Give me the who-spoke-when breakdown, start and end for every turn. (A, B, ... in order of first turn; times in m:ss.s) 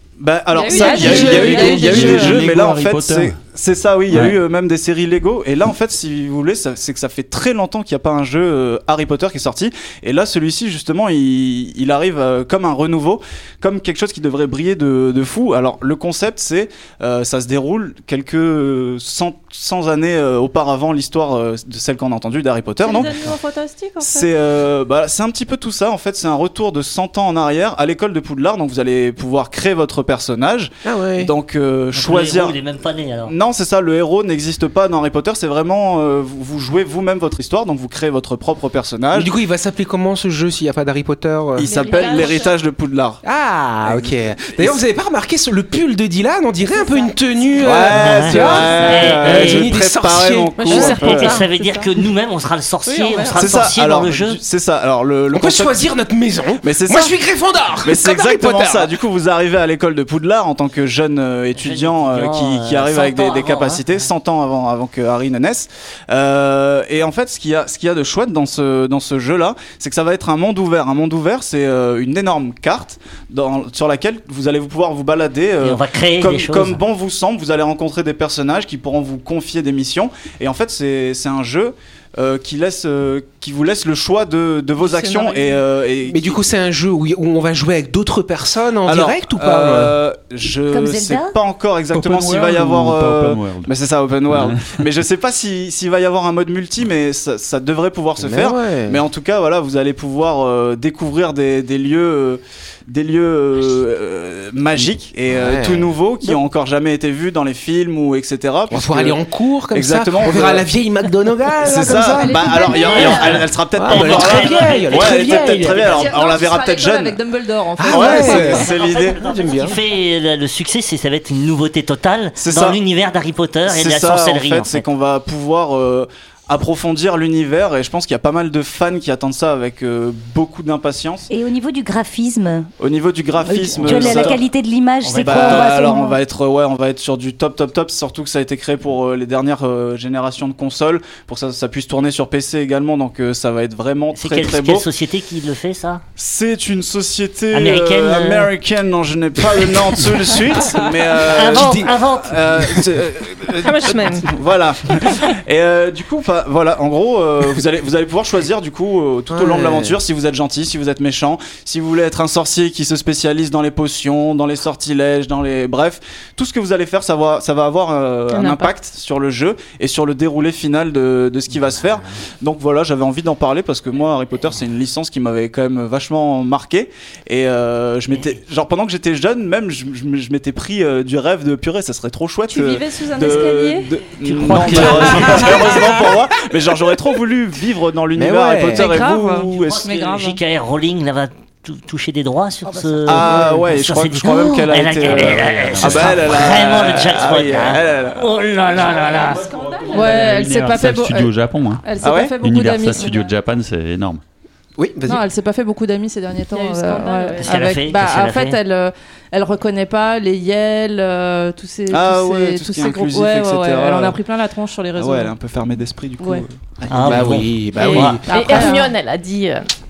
0:00.2-0:23.3 A
0:00.5-0:02.4 B
0:00.6-0:02.2 C
0:00.8-0:03.4 D
0:04.1-0:04.4 D
0:22.8-0:24.2 B
0:24.0-0:32.6 A
0:30.8-0:31.3 E
0:31.9-0:33.3 F
0:33.2-0:39.3 A
0:39.1-0:41.8 E
0:41.6-0:43.2 A
0:41.6-0:42.5 B
0:43.2-0:50.8 E
0:43.8-0:44.8 A
0:47.6-0:51.3 A
0:47.9-0:49.7 F
0:50.6-0:51.8 C
0:50.7-0:51.0 B
0:50.7-0:54.4 F
0:52.8-0:53.3 B
0:53.4-0:55.8 A
0:55.3-0:58.9 E
0:56.6-0:57.1 A
0:57.8-1:26.4 A
1:01.6-1:03.8 F
1:15.6-1:16.8 F
1:24.8-1:25.6 B
1:26.0-1:29.9 E
1:28.8-1:49.2 A
1:30.7-1:31.4 G
1:31.9-1:33.7 D
1:34.3-1:34.8 D
1:38.2-1:39.0 E
1:45.3-1:46.0 E
1:48.7-1:52.8 E
1:49.7-1:50.7 A
1:51.6-1:57.2 A
1:52.0-1:53.4 B
1:52.7-1:56.1 F
1:53.7-1:56.0 E
1:55.7-1:58.7 B
1:57.8-1:59.8 E
1:57.9-1:59.2 A
1:58.3-2:04.8 F
2:02.4-2:02.8 A
2:03.6-2:11.3 A
2:11.3-2:12.7 G
2:12.8-2:14.5 A
2:13.4-2:16.2 G
2:13.7-2:14.4 F
2:15.0-2:15.9 F
2:15.2-2:24.8 A
2:24.1-2:26.0 F
2:26.2-3:09.9 A
2:27.5-2:28.5 F
2:31.1-2:32.8 F
2:31.5-2:31.9 E
2:33.6-2:34.3 C
2:39.3-2:40.0 E
2:48.3-2:48.7 C
3:02.5-3:03.9 B
3:04.2-3:06.0 D
3:04.8-3:05.6 B
3:05.0-3:06.1 E
3:08.1-3:09.0 E
3:08.7-3:10.4 B
3:09.5-3:19.4 F
3:13.0-3:20.2 A
3:15.1-3:16.6 D
3:19.4-3:20.2 C
3:19.9-3:24.2 D
3:19.9-3:21.3 B
3:21.8-3:23.2 B
3:22.0-3:22.3 A
3:24.8-3:25.2 E
3:25.1-3:35.3 B
3:26.5-3:27.5 C
3:27.4-3:28.6 F
3:31.9-3:34.2 A
3:35.0-3:37.4 A
3:36.2-3:36.4 B
3:36.9-3:38.2 F
3:37.0-3:38.7 E
3:37.9-3:39.7 C
3:38.3-3:38.9 B